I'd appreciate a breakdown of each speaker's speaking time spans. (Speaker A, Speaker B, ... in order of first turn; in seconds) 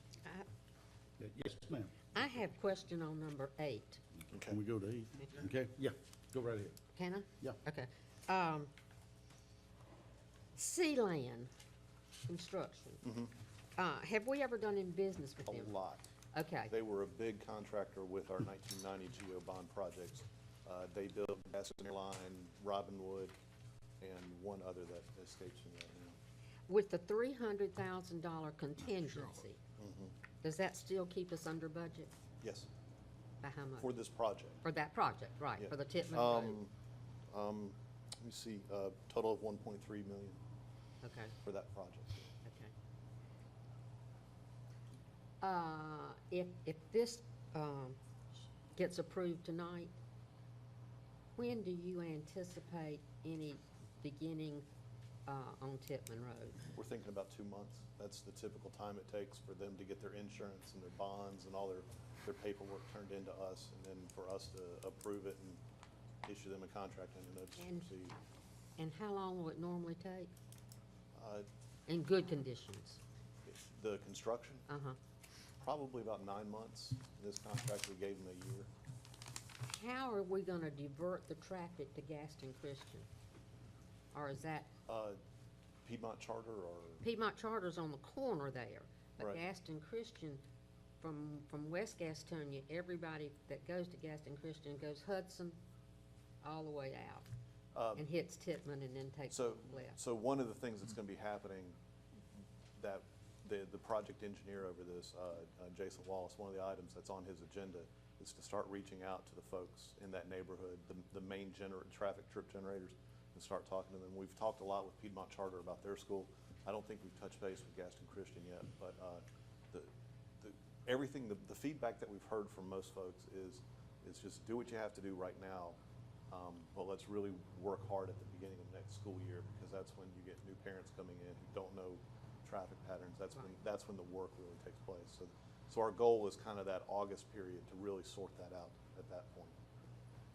Speaker A: 1.2-2.0, 4.5-6.8
Speaker B: 2.1-4.0, 7.0-8.7, 10.6-11.5, 12.3-13.0, 13.8-15.7, 16.3-16.7, 26.7-29.6, 30.4-32.1, 33.4-34.0, 34.6-36.6, 41.0-41.4, 42.4-42.7, 45.4-48.0, 48.8-49.9, 51.4-54.6, 55.3-56.6, 67.6-67.9, 68.8-70.3, 71.9-73.0, 74.7-75.0, 79.6-83.1, 84.1-84.7, 87.0-90.4, 91.0-95.6, 96.4-97.3, 98.0-100.0
Speaker C: 4.3-4.6, 13.0-13.3, 15.5-16.1, 16.7-23.4, 24.0-26.2, 29.8-30.1, 32.4-32.7, 33.8-34.6, 35.6-36.7, 37.3-40.4, 41.4-42.3, 56.7-65.6, 66.2-68.2, 71.2-71.5, 73.5-74.7, 75.6-78.7, 84.9-85.2, 85.9-87.0, 97.7-98.1, 99.3-101.8, 102.8-125.8, 126.3-139.6